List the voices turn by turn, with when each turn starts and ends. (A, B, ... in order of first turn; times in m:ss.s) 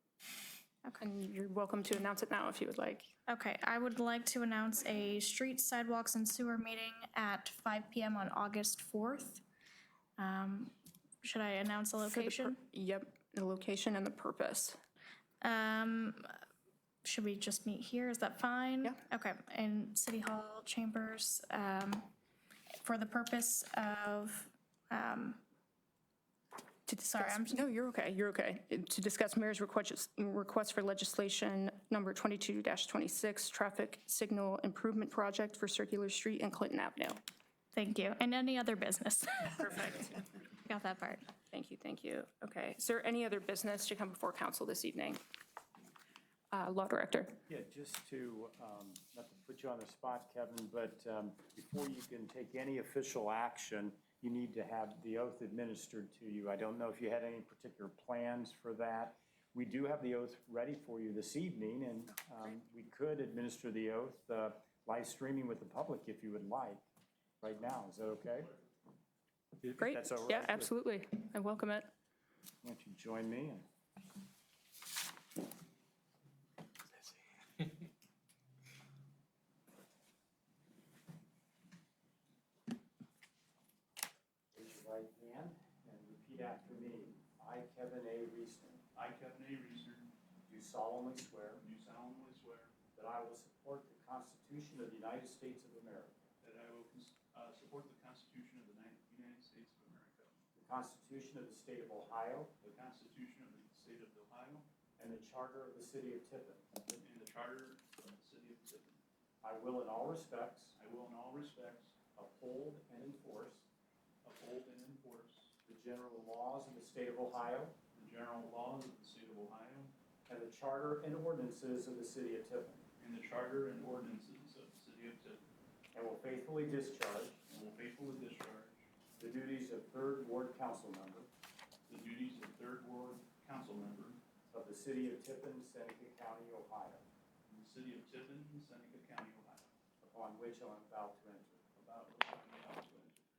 0:00.9-0:03.1 A
0:03.2-0:09.4 B
0:10.2-0:12.6 B
0:12.0-0:14.8 A
0:15.4-0:16.4 B
0:17.0-0:22.1 B
0:22.8-0:25.4 B
0:26.9-0:37.2 A
0:27.0-0:27.7 B
0:37.7-0:41.3 B
0:41.5-0:45.2 A
0:46.5-0:47.4 A
0:47.5-1:06.8 C
1:07.4-1:08.5 C
1:09.6-1:10.7 C
1:09.7-1:11.9 A
1:12.6-1:13.6 C
1:24.5-1:28.8 C
1:28.9-1:30.1 D
1:30.4-1:31.6 C
1:31.6-1:32.7 D
1:32.9-1:36.2 C
1:36.4-1:40.3 D
1:40.6-1:42.5 C
1:42.6-1:44.6 D
1:45.0-1:46.6 C
1:46.9-1:49.0 D
1:49.4-1:50.7 C
1:50.8-1:51.9 D
1:52.1-1:53.6 C
1:54.2-1:55.5 D
1:55.6-1:57.8 C
1:57.9-1:59.9 D
2:00.3-2:02.8 C
2:03.0-2:05.4 D
2:05.9-2:07.4 C
2:07.5-2:08.8 D
2:09.2-2:11.3 C
2:11.9-2:14.2 D
2:14.5-2:17.0 C
2:17.5-2:19.7 D
2:20.0-2:21.7 C
2:21.8-2:23.2 D